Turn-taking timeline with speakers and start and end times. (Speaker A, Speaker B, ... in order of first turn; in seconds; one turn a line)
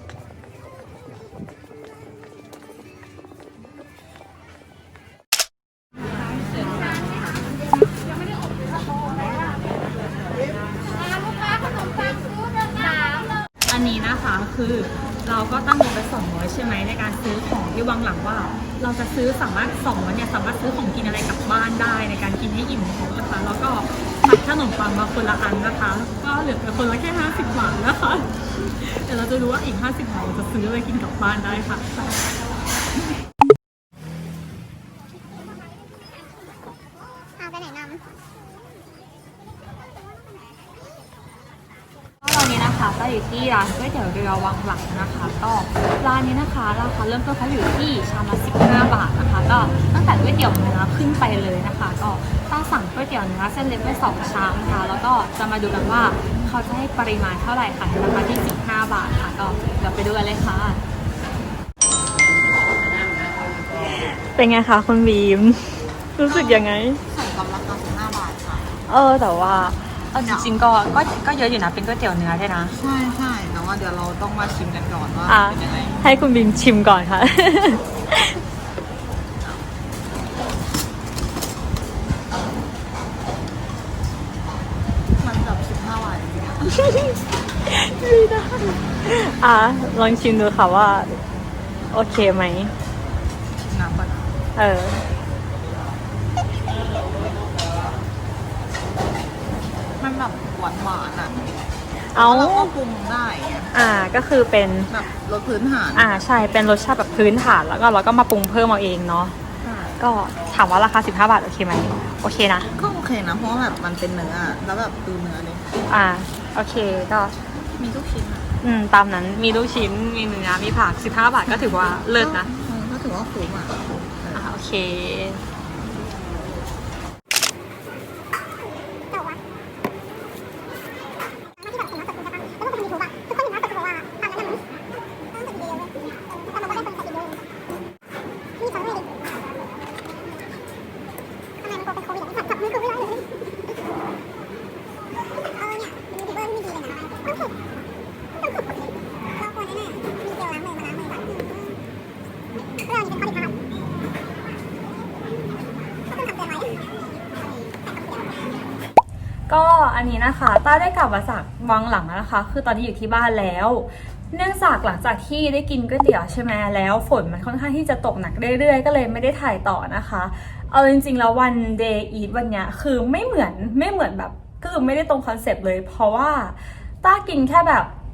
Speaker A: 13.7-32.2
Speaker B: 37.6-38.0
Speaker A: 42.2-60.8
Speaker A: 64.1-67.0
Speaker C: 66.3-68.8
Speaker A: 68.9-72.8
Speaker C: 70.2-70.5
Speaker C: 72.7-76.0
Speaker A: 75.3-78.4
Speaker C: 85.1-86.8
Speaker A: 86.8-87.1
Speaker A: 87.6-91.2
Speaker A: 91.9-92.7
Speaker C: 93.5-94.4
Speaker A: 94.5-95.0
Speaker C: 100.0-101.5
Speaker A: 102.1-102.7
Speaker C: 102.1-103.7
Speaker A: 103.7-104.9
Speaker C: 104.9-106.1
Speaker A: 105.9-109.3
Speaker C: 109.6-110.0
Speaker A: 110.0-112.7
Speaker C: 112.7-115.8
Speaker A: 115.9-117.3
Speaker C: 117.8-118.5
Speaker A: 118.6-122.5
Speaker C: 122.1-124.5
Speaker A: 124.3-125.4
Speaker B: 131.7-134.3
Speaker B: 135.5-135.9
Speaker B: 136.6-137.3
Speaker B: 141.7-143.2
Speaker B: 145.7-147.1
Speaker B: 149.5-151.6
Speaker B: 152.9-153.4
Speaker B: 156.3-156.7
Speaker A: 159.5-177.9